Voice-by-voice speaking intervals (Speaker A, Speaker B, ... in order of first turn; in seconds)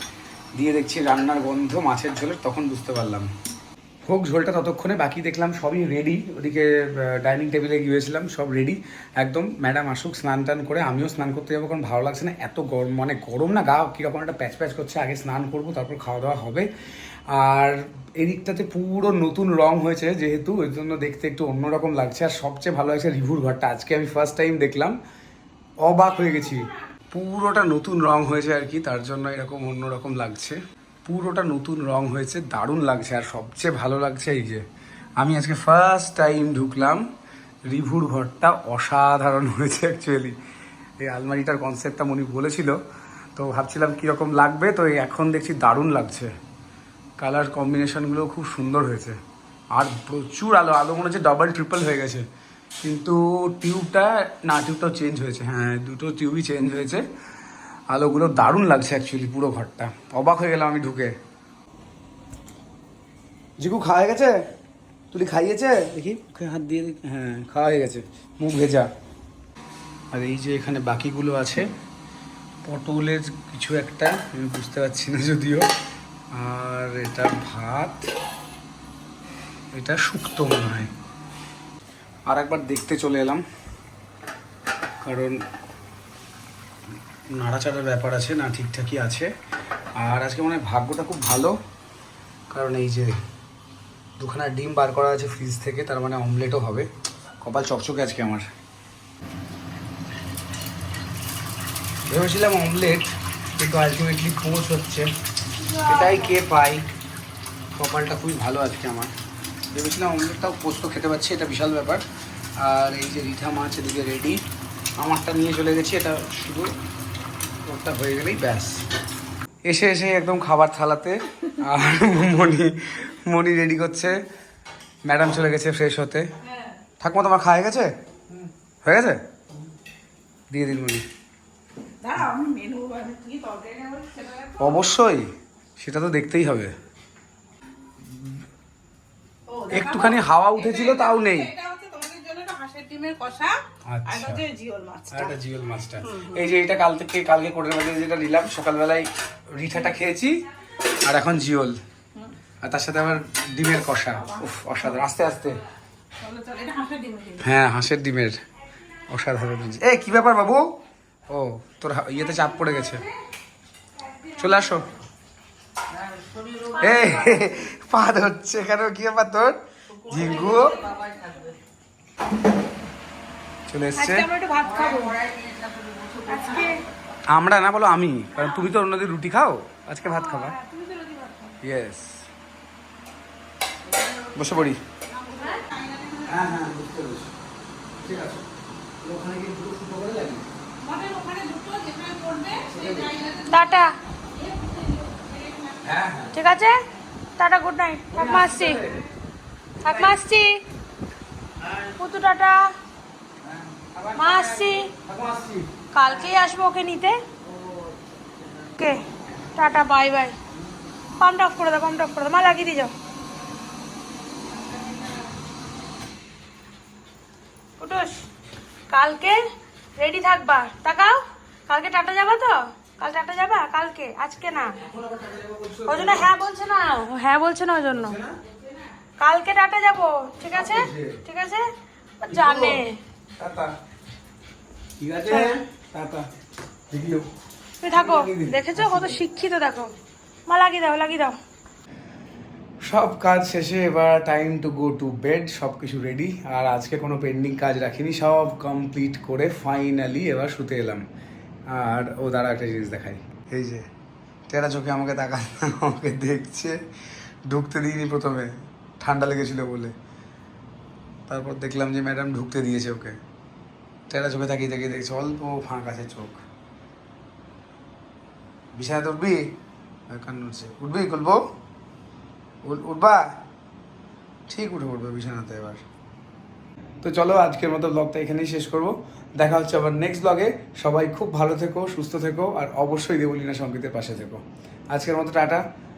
Speaker A: 0.6-3.3, 4.1-16.7, 17.3-25.0, 25.8-34.6, 35.2-37.0, 37.7-40.4, 41.0-42.8, 43.4-46.3, 47.2-49.2, 49.7-52.3, 52.8-57.0, 57.9-61.1, 63.6-64.4, 65.1-68.9, 70.1-71.7, 72.7-75.7, 76.3-78.1, 79.7-80.9, 82.3-83.4, 85.0-85.4, 87.4-89.3, 90.0-91.5, 92.5-93.2, 94.2-96.9, 97.4-98.5, 102.1-105.1, 105.8-106.8, 107.8-109.1, 109.7-112.0, 112.6-114.4, 115.0-116.7, 117.6-118.8, 119.7-124.2, 125.0-126.3, 127.0-127.9, 128.8-129.2, 130.5-131.1, 134.6-136.7, 138.1-138.4, 139.7-141.5, 143.9-144.4, 145.1-150.5, 151.0-151.8, 152.6-155.6, 157.4-158.4, 159.1-160.8, 161.3-163.1, 164.4-164.9, 166.8-170.8, 173.7-174.3, 177.3-180.6, 181.6-182.3, 184.3-184.8, 186.3-187.3, 188.0-188.5, 189.0-190.5, 192.6-193.2, 195.8-196.4, 198.1-199.0, 199.9-200.1, 203.4-205.7, 224.8-226.3, 227.9-228.3, 230.5-231.2, 232.3-232.8, 233.4-233.7, 235.0-236.3, 236.9-237.3, 237.9-239.2, 242.8-251.0, 251.7-253.9, 254.5-256.8, 257.5-259.9, 261.3-263.2, 264.1-266.4, 268.7-269.5, 270.1-271.4, 272.6-273.2, 274.5-275.8, 277.0-285.6
Speaker B: 105.6-106.4, 166.8-167.3, 174.0-175.2, 176.3-176.8, 180.2-180.8, 193.5-193.9, 196.3-196.8, 197.4-198.8, 199.8-200.6, 201.9-202.7, 204.2-204.9, 205.9-207.2, 208.8-209.0, 209.6-210.4, 211.2-212.9, 217.8-218.2, 218.9-219.4, 220.0-224.8, 225.9-228.2, 229.2-231.7, 232.2-233.0, 235.3-235.6, 237.8-239.9, 240.5-241.3
Speaker C: 132.0-134.6, 139.5-145.3, 156.2-157.4, 166.3-166.8, 170.8-171.5, 175.1-176.6, 185.2-186.3, 190.8-193.5, 194.4-195.8